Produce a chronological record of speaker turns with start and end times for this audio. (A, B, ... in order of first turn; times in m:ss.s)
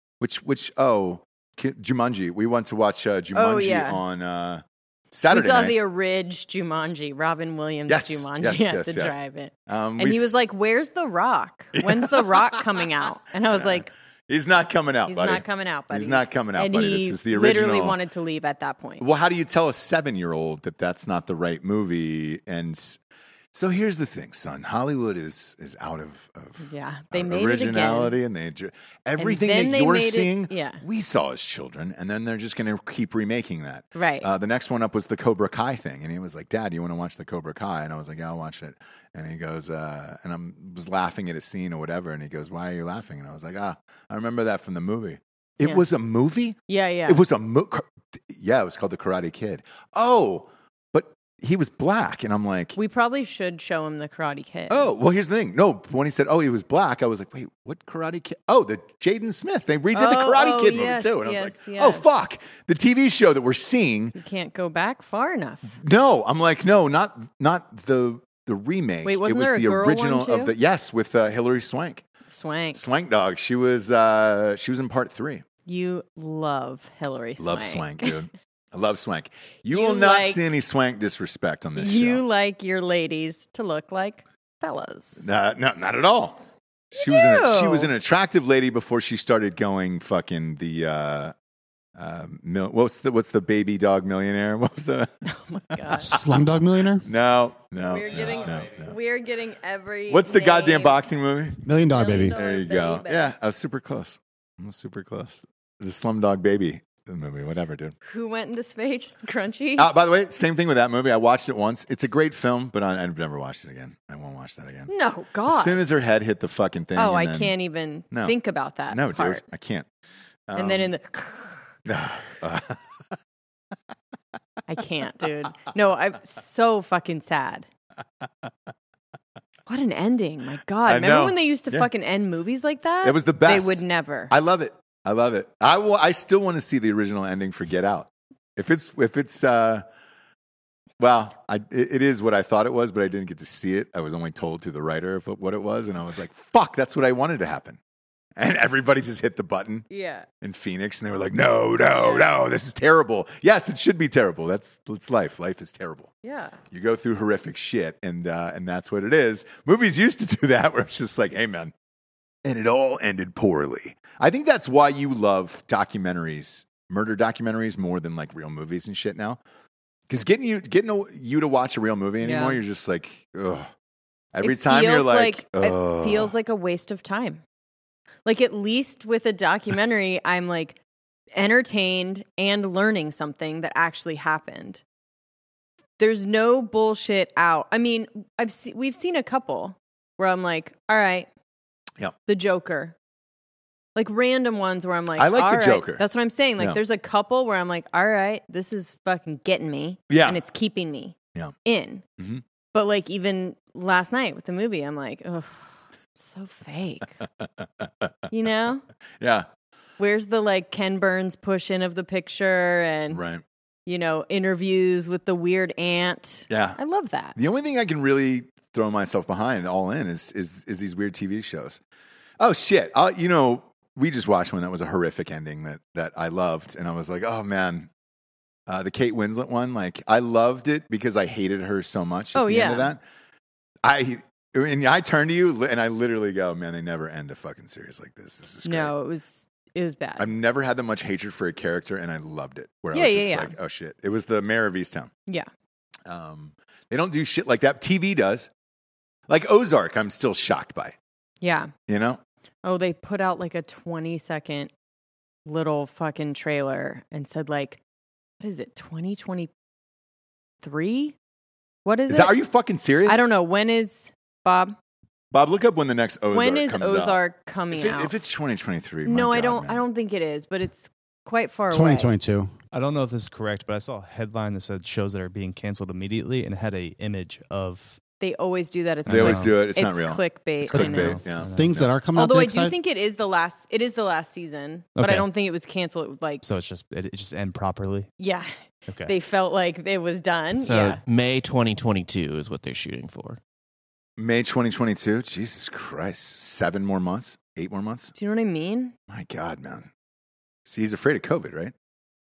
0:00.2-0:05.8 A
0:03.4-0:04.0 B
0:05.3-0:13.9 B
0:07.9-0:10.4 A
0:11.8-0:12.6 A
0:13.5-0:18.0 A
0:15.1-0:19.0 B
0:19.0-0:23.0 A
0:23.5-0:52.8 A
0:26.6-0:28.2 B
0:29.2-0:30.8 B
0:34.0-0:34.3 B
0:46.7-0:47.2 B
0:52.8-0:54.9 B
0:54.7-1:04.2 A
0:59.9-1:02.1 B
1:04.2-1:05.7 B
1:05.8-1:12.0 A
1:09.0-1:10.5 B
1:12.3-1:12.8 B
1:12.7-1:15.4 A
1:15.7-1:18.1 B
1:17.4-1:22.2 A
1:19.7-1:20.4 B
1:21.8-1:25.2 B
1:25.2-1:26.4 A
1:26.9-1:31.3 A
1:27.0-1:27.9 B
1:32.0-1:35.2 A
1:35.4-1:36.2 B
1:35.7-1:36.4 A
1:35.9-1:37.1 C
1:37.0-1:39.0 A
1:37.8-1:41.0 B
1:40.1-1:41.6 A
1:41.6-1:42.4 C
1:41.9-1:43.3 B
1:42.3-1:48.0 A
1:48.0-1:49.9 B
1:49.8-1:54.9 A
1:54.9-1:55.8 B
1:55.5-1:57.6 A
1:57.0-1:59.4 B
1:58.1-1:58.4 A
1:58.9-1:59.9 A
2:00.5-2:00.9 A
2:00.6-2:01.7 B
2:01.9-2:02.8 A
2:04.7-2:07.7 B
2:09.7-2:14.3 B
2:10.8-2:11.9 A
2:13.0-2:19.8 A
2:21.0-2:27.8 A
2:28.4-2:29.9 A
2:29.9-2:30.3 B
2:30.4-2:36.1 A
2:32.0-2:32.3 B
2:36.2-2:36.6 B
2:36.7-2:41.7 A
2:42.4-2:49.4 A
2:50.1-2:53.7 A
2:52.2-2:52.6 B
2:54.3-2:56.3 A
2:54.4-2:57.4 B
2:58.2-3:00.8 B
3:01.3-3:04.8 B
3:06.0-3:11.3 B
3:12.3-3:13.0 B
3:14.0-3:22.0 B
3:15.2-3:16.0 A
3:20.1-3:20.4 A
3:22.2-3:22.4 A
3:22.7-3:27.2 B
3:27.8-3:28.1 A
3:28.3-3:28.8 B
3:29.2-3:29.5 A
3:30.0-3:33.2 B
3:33.1-3:33.4 A
3:33.9-3:37.4 B
3:36.5-3:36.8 A
3:37.4-3:41.8 A
3:42.4-3:47.9 A
3:48.7-3:53.0 A
3:52.4-3:52.9 B
3:53.8-3:58.9 A
3:58.6-4:00.3 B
4:00.2-4:05.1 A
4:02.9-4:03.5 B
4:06.1-4:08.5 A
4:09.3-4:11.0 A
4:11.4-4:11.7 B
4:11.9-4:12.2 A
4:12.6-4:14.7 B
4:15.5-4:17.8 B
4:18.4-4:19.5 B
4:20.6-4:21.2 B
4:21.8-4:22.3 B
4:22.1-4:23.2 A
4:23.1-4:24.8 B
4:25.3-4:27.2 A
4:26.3-4:28.1 B
4:27.7-4:29.8 A
4:29.0-4:32.1 B
4:31.7-4:32.5 C
4:32.7-4:38.0 D
4:38.2-4:41.2 B
4:39.1-4:39.6 D
4:39.1-4:41.9 A
4:40.7-4:42.8 C
4:40.9-4:41.8 D
4:42.1-4:46.4 B
4:45.0-4:45.3 D
4:46.4-4:48.1 D
4:48.2-4:48.5 B
4:48.9-4:49.1 D
4:49.1-4:51.0 B
4:50.6-4:53.4 E
4:54.2-4:58.1 A
4:58.2-4:59.0 B
4:59.1-4:59.9 A
5:00.7-5:01.7 A